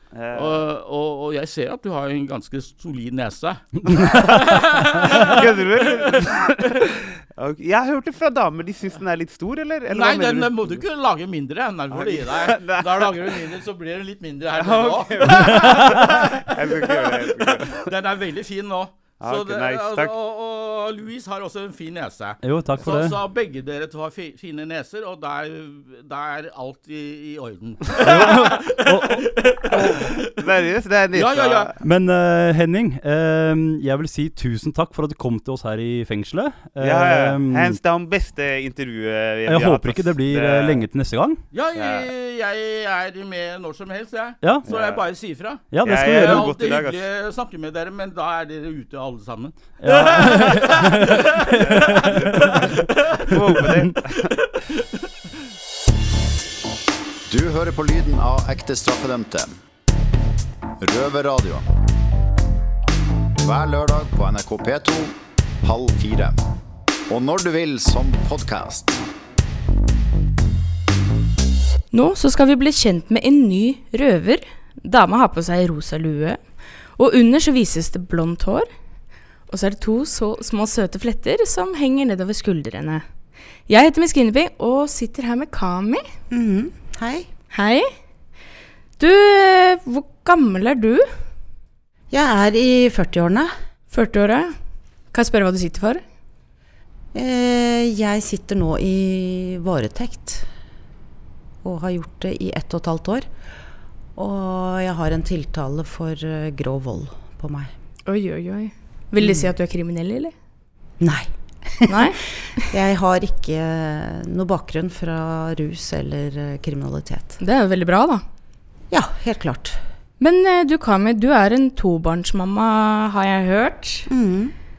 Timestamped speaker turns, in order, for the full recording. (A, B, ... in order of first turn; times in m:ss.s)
0:00.1-0:00.6 A
0:00.3-0:06.9 B
0:03.9-0:04.6 C
0:05.1-0:10.8 A
0:09.9-0:30.3 B
0:11.9-0:13.4 A
0:14.6-0:17.8 A
0:15.4-0:16.0 C
0:19.2-0:20.1 A
0:22.4-0:23.2 C
0:28.0-0:29.3 C
0:29.8-0:31.8 A
0:31.1-0:31.7 B
0:31.8-0:37.8 C
0:36.8-0:40.8 A
0:39.5-0:41.4 C
0:41.5-0:53.3 B
0:41.8-0:42.1 A
0:44.4-0:44.7 C
0:44.7-0:45.0 A
0:45.7-0:46.5 C
0:45.8-0:47.0 A
0:49.8-0:52.7 C
0:51.6-0:54.3 A
0:54.4-0:54.8 B
0:57.3-0:59.5 D
1:00.8-1:01.6 D
1:03.4-1:06.4 D
1:07.1-1:09.0 D
1:11.9-1:16.4 E
1:17.0-1:18.7 E
1:19.5-1:23.0 E
1:23.7-1:26.0 E
1:26.3-1:27.3 F
1:27.5-1:27.9 E
1:29.0-1:31.1 E
1:32.1-1:33.5 F
1:33.9-1:34.5 E
1:35.1-1:36.0 E
1:37.1-1:40.4 F
1:41.6-1:43.3 F
1:44.2-1:47.7 F
1:48.1-1:50.3 E
1:49.2-1:49.5 F
1:51.0-1:52.1 F
1:51.9-1:52.6 E
1:52.7-1:57.4 F
1:57.4-1:58.2 E
1:58.9-1:59.8 F
2:00.2-2:04.1 E
2:04.1-2:04.5 F